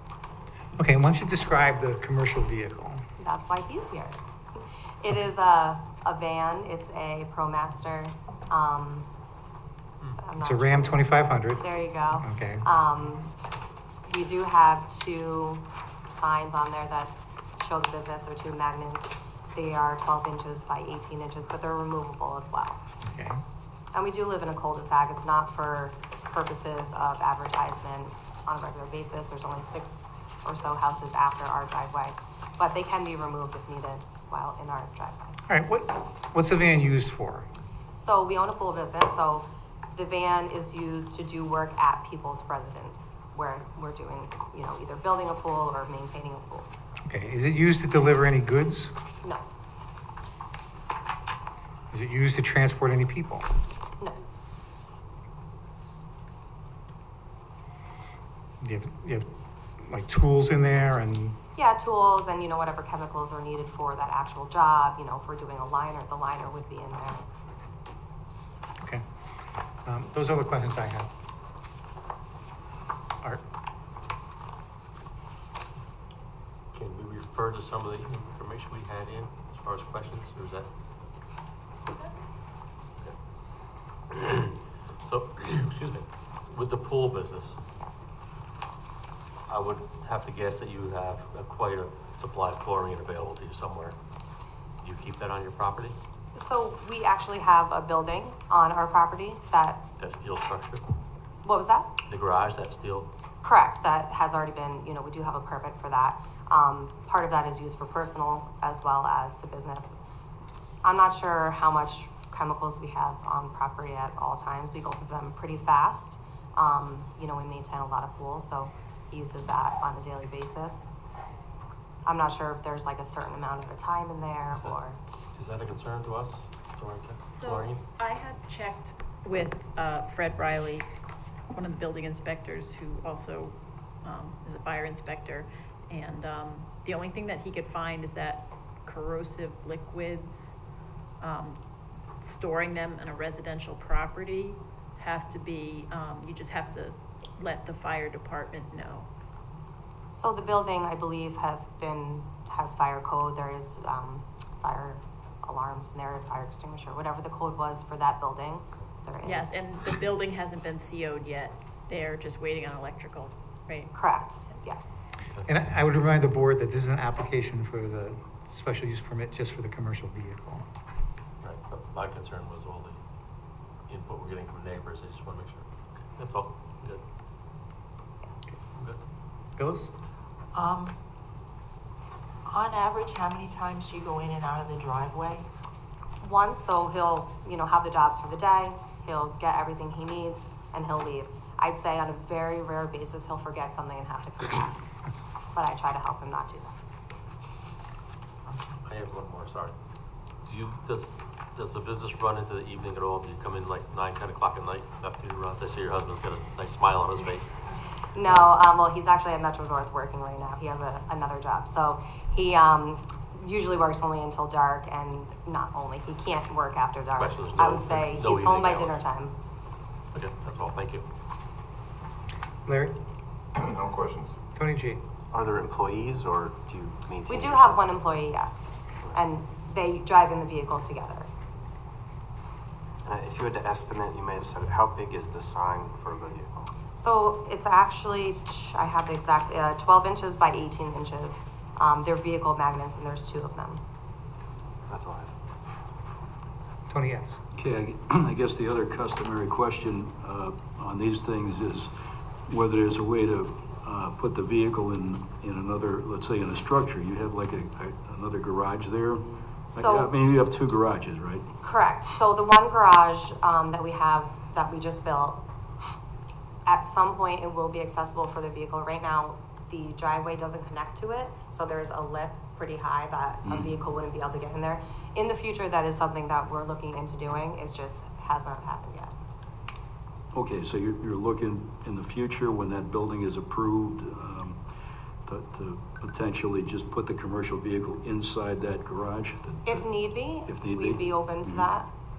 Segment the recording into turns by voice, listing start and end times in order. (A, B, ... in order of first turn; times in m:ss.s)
0:00.8-0:03.0 A
0:03.2-0:04.2 B
0:05.0-0:09.1 B
0:10.2-0:11.1 B
0:10.4-0:11.6 A
0:11.6-0:13.3 B
0:12.2-0:12.6 A
0:14.1-0:22.8 B
0:23.0-0:23.4 A
0:23.9-0:35.3 B
0:35.5-0:37.4 A
0:38.0-0:46.7 B
0:47.1-0:48.9 A
0:51.9-0:53.4 A
0:58.6-0:59.3 A
0:59.8-1:01.4 A
1:01.6-1:07.2 B
1:09.9-1:11.1 A
1:16.7-1:20.7 C
1:24.1-1:27.6 C
1:27.8-1:28.1 B
1:29.5-1:34.0 C
1:34.8-1:36.0 C
1:36.4-1:39.9 B
1:40.0-1:40.8 C
1:41.4-1:42.0 B
1:42.0-1:43.1 C
1:43.4-1:50.0 B
1:50.8-2:00.9 B
2:02.1-2:05.0 B
2:05.4-2:07.8 C
2:07.3-2:10.9 D
2:11.5-2:20.5 D
2:21.2-2:21.6 D
2:22.2-2:29.1 D
2:30.1-2:39.7 B
2:39.2-2:43.9 D
2:43.9-2:45.0 B
2:45.4-2:50.7 A
2:51.4-2:53.0 C
2:53.9-2:57.0 C
2:59.6-2:59.9 A
3:00.5-3:00.9 E
3:02.5-3:05.4 E
3:06.2-3:14.8 B
3:15.5-3:16.8 B
3:18.8-3:19.8 C
3:20.4-3:27.5 C
3:28.1-3:39.3 B
3:37.2-3:39.0 C
3:40.1-3:41.0 C
3:42.7-3:43.0 A
3:43.6-3:44.3 F
3:44.5-3:45.0 A
3:45.3-3:47.9 F
3:47.3-3:51.3 B
3:53.0-3:56.7 F
3:57.0-4:03.8 B
4:04.9-4:05.3 F
4:06.9-4:07.4 A
4:07.6-4:11.9 G
4:12.5-4:21.5 G
4:19.7-4:20.1 B
4:21.6-4:25.4 B
4:26.7-4:39.1 B
4:40.3-4:44.6 G
4:45.2-4:49.9 G
4:49.7-4:51.9 B
4:50.5-4:51.6 G